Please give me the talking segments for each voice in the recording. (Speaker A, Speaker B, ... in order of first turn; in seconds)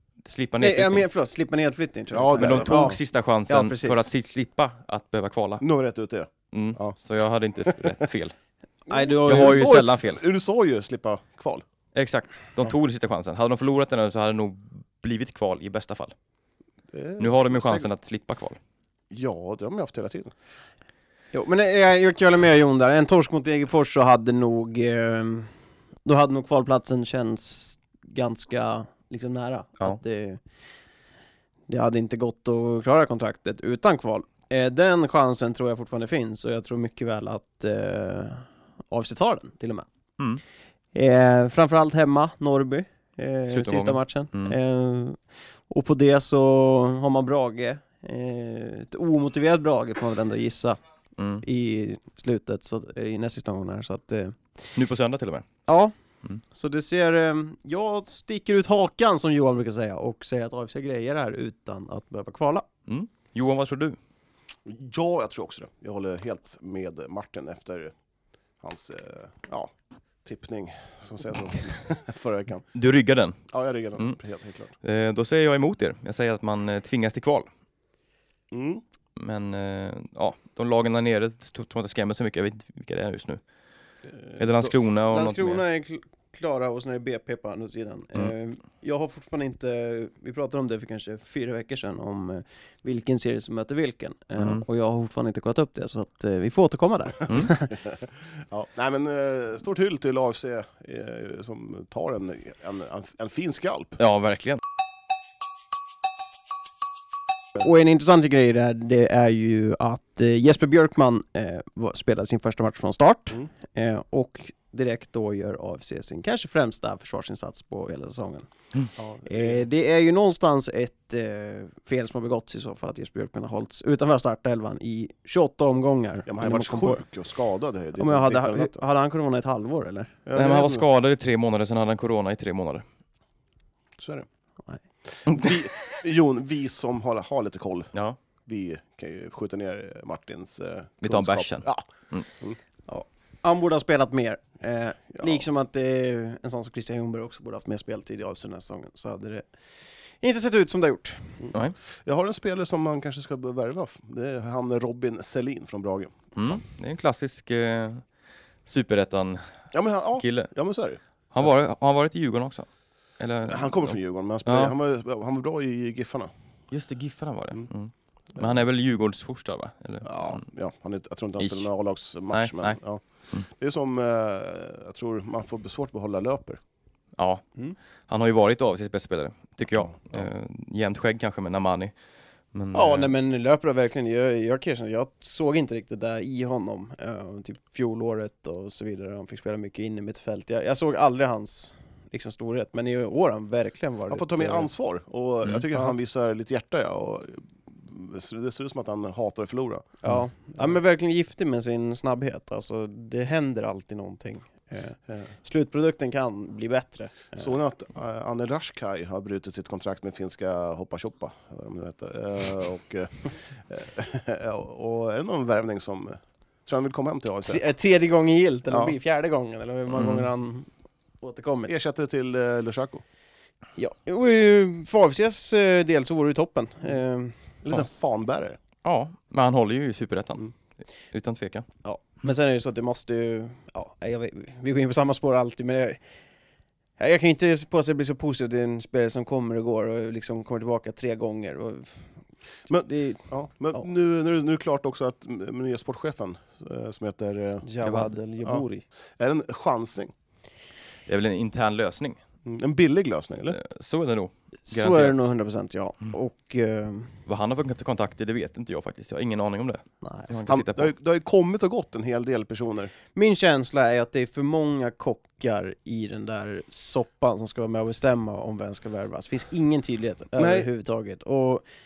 Speaker A: 0.2-1.1, 2.4-5.6, 6.5-8.3, 9.2-10.2, 11.9-16.1, 17.2-18.6, 43.5-44.5, 51.2-51.4, 54.7-55.4, 62.9-64.0, 72.7-74.2, 74.8-77.5, 79.2-83.4, 84.4-85.6, 104.0-104.6, 130.3-132.8, 141.0-142.3, 156.3-158.0, 158.6-159.4, 160.2-160.5, 161.3-162.7, 163.2-164.7, 166.7-170.4, 171.4-171.7, 172.3-172.8, 177.2-177.4, 178.1-181.9, 182.5-183.1, 219.9-220.3, 228.8-230.5, 231.1-231.7, 247.8-248.1, 251.1-252.2, 253.5-255.3, 257.3-260.9
Speaker B: 0.6-4.1, 8.9-9.8, 21.3-25.5, 26.0-30.4, 31.7-39.9, 40.9-50.8, 51.4-54.4, 55.7-55.9, 56.5-62.6, 85.1-97.7, 107.6-118.5, 119.2-127.0, 128.0-130.2, 142.9-149.4, 150.2-151.4, 182.7-194.7, 200.0-207.5, 217.4-220.7, 221.2-221.8, 223.8-227.3, 231.8-236.0, 237.0-242.0, 242.7-243.8, 247.6-248.8, 254.7-257.2, 260.0-260.3, 263.1-271.6
Speaker C: 2.1-3.0, 5.6-7.0, 7.6-7.9, 8.9-11.6, 16.9-17.9, 19.1-20.3, 64.6-67.9, 68.6-69.7, 70.2-72.7, 73.5-74.7, 78.5-78.8, 84.1-84.7, 97.9-104.0, 119.0-119.6, 126.3-128.8, 130.2-130.8, 134.0-134.3, 135.2-137.9, 138.4-141.9, 145.1-145.4, 151.4-156.3, 159.7-161.0, 163.5-166.3, 170.0-176.6, 179.8-180.2, 194.1-199.9, 207.3-217.6, 221.7-223.0, 227.6-228.6, 242.7-247.7, 249.2-250.1, 252.4-253.6, 260.5-262.9, 270.4-270.7